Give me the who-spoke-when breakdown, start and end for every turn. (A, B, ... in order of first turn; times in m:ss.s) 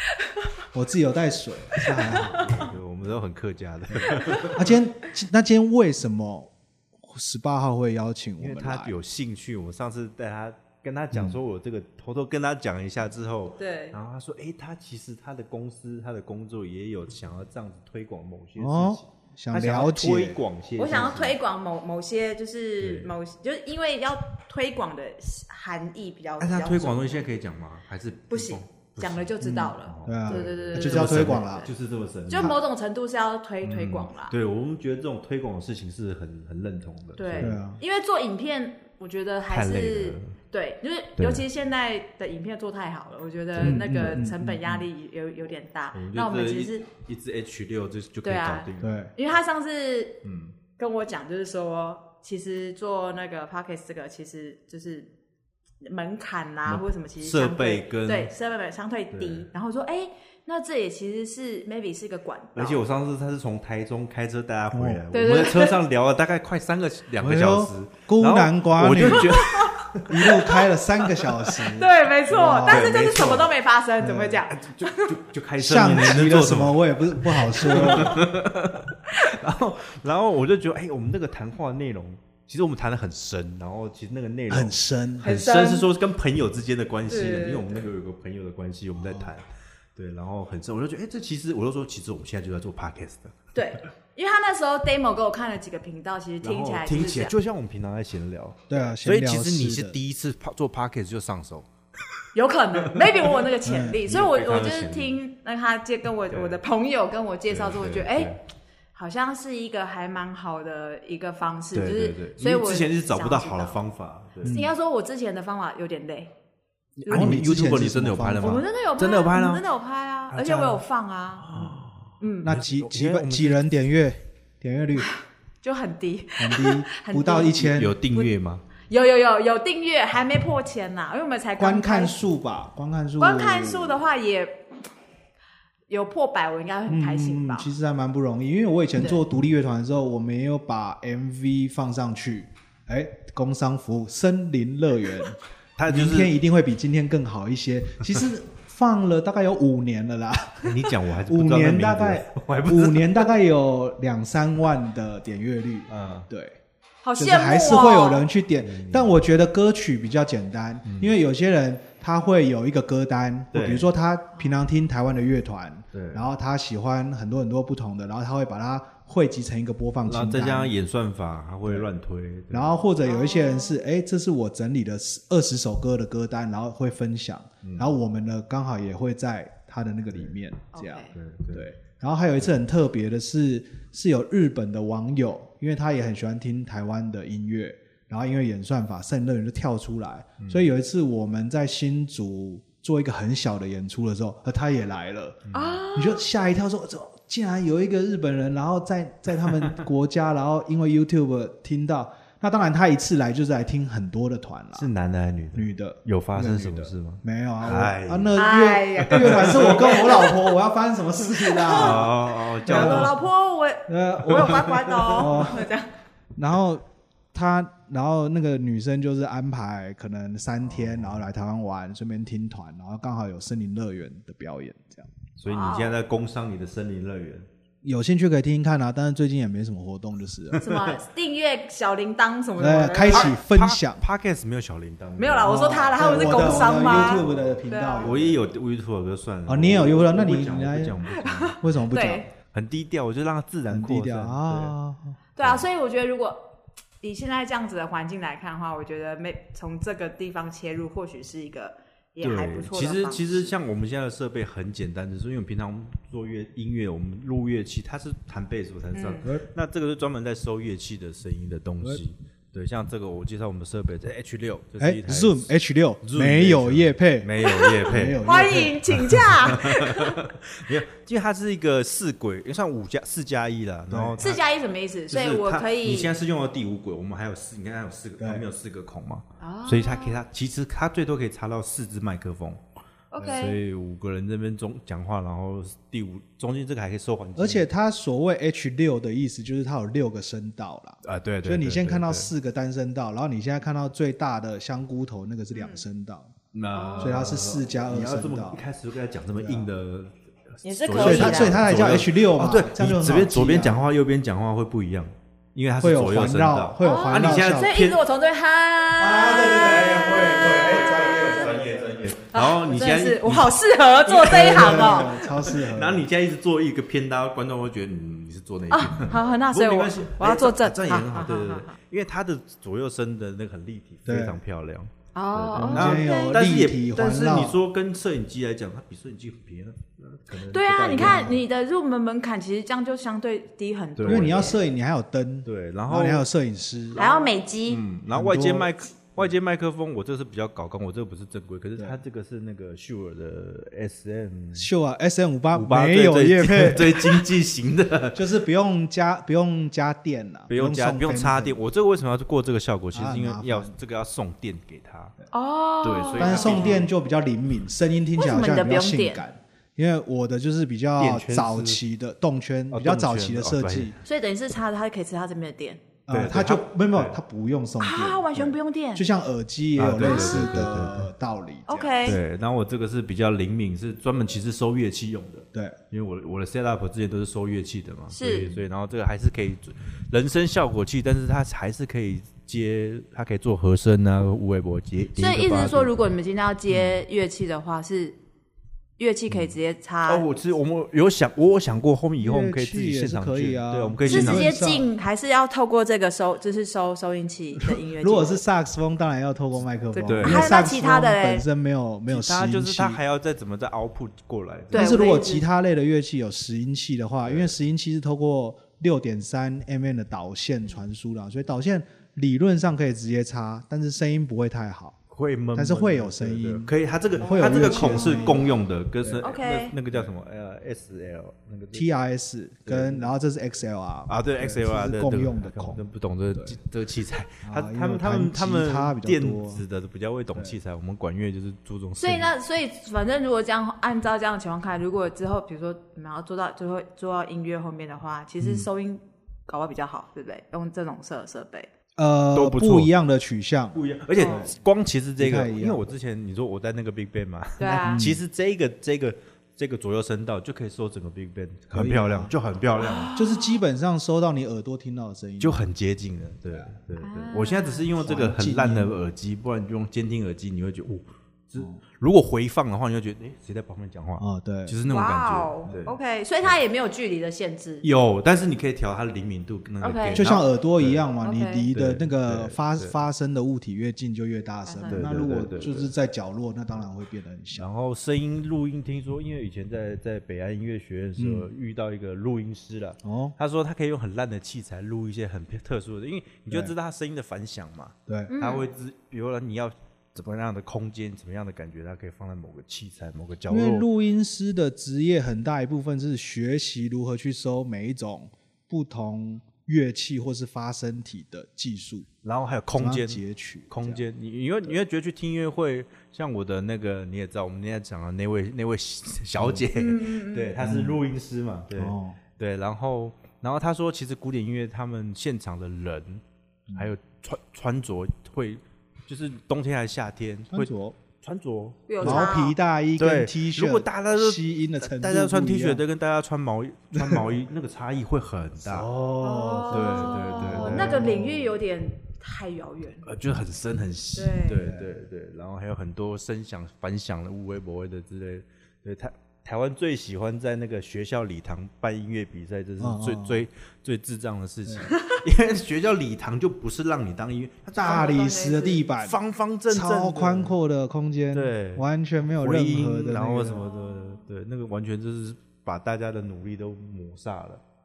0:00.7-0:02.6 A
0:01.8-0:02.7 B
0:02.1-0:04.7 C
0:04.1-0:08.9 A
0:04.1-0:04.5 B
0:08.4-0:21.4 C
0:11.1-0:11.4 A
0:13.6-0:14.0 B
0:18.6-0:20.4 A
0:20.8-0:27.3 B
0:22.8-0:23.1 C
0:26.4-0:32.6 C
0:28.3-0:31.7 B
0:29.4-0:31.7 A
0:32.3-0:34.4 B
0:33.6-0:37.6 C
0:37.2-0:46.9 B
0:37.4-0:37.8 A
0:39.5-0:40.3 C
0:41.2-0:41.4 C
0:43.5-0:44.3 C
0:43.6-0:44.8 A
0:45.9-0:49.0 C
0:48.2-0:50.2 B
0:48.8-0:49.1 A
0:50.2-0:50.6 C
0:50.8-0:55.1 B
0:55.8-1:02.8 B
0:56.7-0:58.3 C
0:59.1-0:59.5 C
1:02.6-1:10.6 C
1:04.7-1:05.0 A
1:05.1-1:05.8 B
1:07.2-1:09.3 A
1:09.0-1:09.8 B
1:10.1-1:12.9 A
1:11.2-1:11.7 C
1:11.7-1:15.1 B
1:12.6-1:13.5 C
1:14.0-1:14.4 A
1:14.2-1:33.5 C
1:15.6-1:18.3 A
1:17.7-1:18.2 B
1:24.5-1:25.3 A
1:25.2-1:25.9 B
1:27.1-1:27.9 B
1:29.0-1:29.3 A
1:33.5-1:37.3 B
1:36.4-1:42.2 C
1:38.7-1:40.0 A
1:42.4-1:48.4 B
1:42.9-1:43.5 C
1:43.6-1:44.0 A
1:44.0-1:45.2 C
1:46.3-1:46.6 C
1:47.5-1:48.4 C
1:48.9-1:53.8 B
1:51.7-1:54.6 C
1:54.4-1:54.7 A
1:54.4-1:56.3 B
1:57.0-1:59.6 C
1:57.1-1:57.4 B
1:57.1-1:58.6 A
1:58.4-2:01.5 B
2:00.3-2:00.8 C
2:01.4-2:03.8 C
2:02.2-2:02.5 B
2:02.4-2:05.1 A
2:05.0-2:08.3 B
2:06.4-2:08.0 A
2:07.5-2:08.6 C
2:08.9-2:12.2 B
2:11.6-2:14.0 A
2:13.2-2:14.9 B
2:15.9-2:17.7 B
2:16.9-2:25.4 A
2:25.8-2:26.3 C
2:25.9-2:36.6 A
2:30.6-2:33.3 C
2:35.9-2:36.3 C
2:37.0-2:38.3 B
2:37.2-2:50.7 A
2:38.6-2:39.2 C
2:40.8-2:41.2 C
2:43.5-2:43.9 C
2:45.9-2:46.3 C
2:50.1-2:52.8 C
2:51.6-2:51.9 A
2:52.5-3:15.4 A
2:53.0-2:53.8 B
2:57.6-2:57.9 C
3:00.7-3:01.1 B
3:01.1-3:01.7 C
3:10.4-3:10.7 C
3:15.5-3:15.8 C
3:15.5-3:16.2 B
3:16.0-3:24.9 A
3:19.5-3:19.8 C
3:24.8-3:28.4 C
3:25.5-3:32.2 A
3:28.4-3:30.5 B
3:29.1-3:29.9 C
3:31.4-3:35.9 B
3:31.7-3:33.2 C
3:32.7-3:33.2 A
3:33.9-3:34.6 A
3:34.3-3:35.3 C
3:35.2-3:35.7 A
3:36.4-3:45.1 A
3:40.7-3:41.1 C
3:45.4-3:47.5 C
3:45.4-3:46.0 B
3:47.8-3:50.6 A
3:50.5-3:53.4 B
3:50.6-3:51.0 C
3:52.6-3:54.0 A
3:53.1-4:01.7 C
3:55.2-3:58.1 B
3:55.4-3:58.4 A
3:59.5-4:01.0 A
4:01.1-4:02.3 B
4:01.6-4:02.3 A
4:02.4-4:04.7 C
4:03.7-4:05.2 A
4:05.4-4:06.5 B
4:07.0-4:13.5 B
4:12.2-4:25.5 C
4:18.9-4:19.3 B
4:24.8-4:29.5 A
4:26.0-4:28.2 C
4:27.4-4:30.2 B
4:29.0-4:34.4 C
4:33.9-4:34.3 A
4:34.2-4:36.1 B
4:35.1-4:42.6 C
4:38.2-4:38.4 A
4:39.4-4:40.2 B
4:43.1-4:43.6 B
4:43.2-4:47.7 C
4:47.4-4:56.3 A
4:51.0-4:52.3 C
4:55.5-4:55.8 B
4:56.5-5:08.0 C
4:56.7-4:57.2 B
4:57.0-4:58.6 A
4:59.4-4:59.7 A
5:00.6-5:01.6 B
5:01.0-5:03.8 A
5:05.8-5:07.8 A
5:06.8-5:11.5 B
5:09.0-5:12.1 A
5:09.5-5:13.5 C
5:12.3-5:15.2 B
5:14.0-5:31.4 C
5:14.2-5:16.1 A
5:18.7-5:21.8 B
5:24.1-5:24.4 A
5:25.2-5:26.4 B
5:25.6-5:27.6 A
5:30.5-5:34.6 B
5:31.0-5:31.4 A
5:34.0-5:34.5 C
5:34.0-5:37.1 A
5:35.4-5:36.3 C
5:37.0-5:44.7 C
5:37.0-5:37.8 B
5:38.1-5:39.3 A
5:44.6-5:47.3 A
5:45.5-5:48.2 C
5:48.1-5:51.6 A
5:50.5-5:55.2 C
5:52.9-5:53.7 A
5:55.3-5:56.8 B
5:55.8-5:56.9 C
5:56.2-6:04.0 A
5:58.2-5:59.2 B
6:01.0-6:01.8 C
6:02.7-6:04.0 C
6:04.0-6:05.8 B
6:06.1-6:12.1 A
6:06.1-6:07.2 C
6:07.8-6:09.0 B
6:09.8-6:11.1 C
6:10.0-6:10.6 B
6:11.7-6:12.2 B
6:12.0-6:25.9 C
6:18.1-6:18.6 B
6:25.2-6:28.2 B
6:29.0-6:30.2 B
6:30.1-6:34.5 C
6:32.2-6:34.9 A
6:34.1-6:38.4 B
6:37.9-6:43.0 A
6:39.9-6:41.4 B
6:40.1-6:40.5 C
6:42.1-6:45.0 C
6:44.7-6:45.4 B
6:44.7-6:55.0 A
6:47.3-6:47.5 C
6:55.1-7:01.9 C
6:55.6-6:59.2 A
6:57.4-6:58.4 B
6:59.2-6:59.8 B
7:01.7-7:05.8 A
7:02.7-7:03.1 C
7:04.1-7:12.3 C
7:07.4-7:09.6 A
7:12.0-7:21.7 B
7:18.4-7:18.7 A
7:22.0-7:24.5 A
7:22.4-7:22.9 C
7:23.7-7:33.1 C
7:24.2-7:24.5 B
7:25.2-7:25.8 A
7:27.6-7:28.0 B
7:27.8-7:28.2 A
7:31.7-7:32.3 A
7:32.8-7:33.6 B
7:33.2-7:35.7 A
7:35.4-7:46.6 C
7:37.0-7:37.9 B
7:38.0-7:39.0 A
7:44.2-7:44.8 A
7:44.9-7:47.9 B
7:47.8-7:51.0 C
7:49.8-7:50.2 B
7:50.2-7:57.7 A
7:51.2-7:51.7 B
7:51.7-7:53.0 C
7:54.6-7:55.1 B
7:54.9-7:55.9 C
7:57.6-8:13.9 C
8:01.2-8:01.5 A
8:03.0-8:03.4 A
8:08.1-8:08.3 A
8:08.3-8:08.7 B
8:13.5-8:22.1 A
8:22.2-8:36.2 C
8:22.8-8:24.0 A
8:29.4-8:29.6 A
8:29.8-8:30.5 B
8:30.6-8:31.0 A
8:31.8-8:32.2 A
8:36.8-8:42.4 C
8:40.5-8:41.0 A
8:41.9-8:42.6 B
8:42.0-8:45.8 A
8:43.0-8:48.9 C
8:47.0-8:47.3 A
8:48.6-8:51.5 A
8:49.2-8:53.1 B
8:49.7-8:51.2 C
8:53.0-9:10.6 C
8:54.1-8:54.7 B
8:54.6-8:54.9 A
9:02.8-9:03.4 A
9:07.8-9:09.2 A
9:07.8-9:08.8 B
9:09.7-9:13.7 A
9:11.3-9:11.8 C
9:12.4-9:17.6 C
9:13.6-9:14.2 B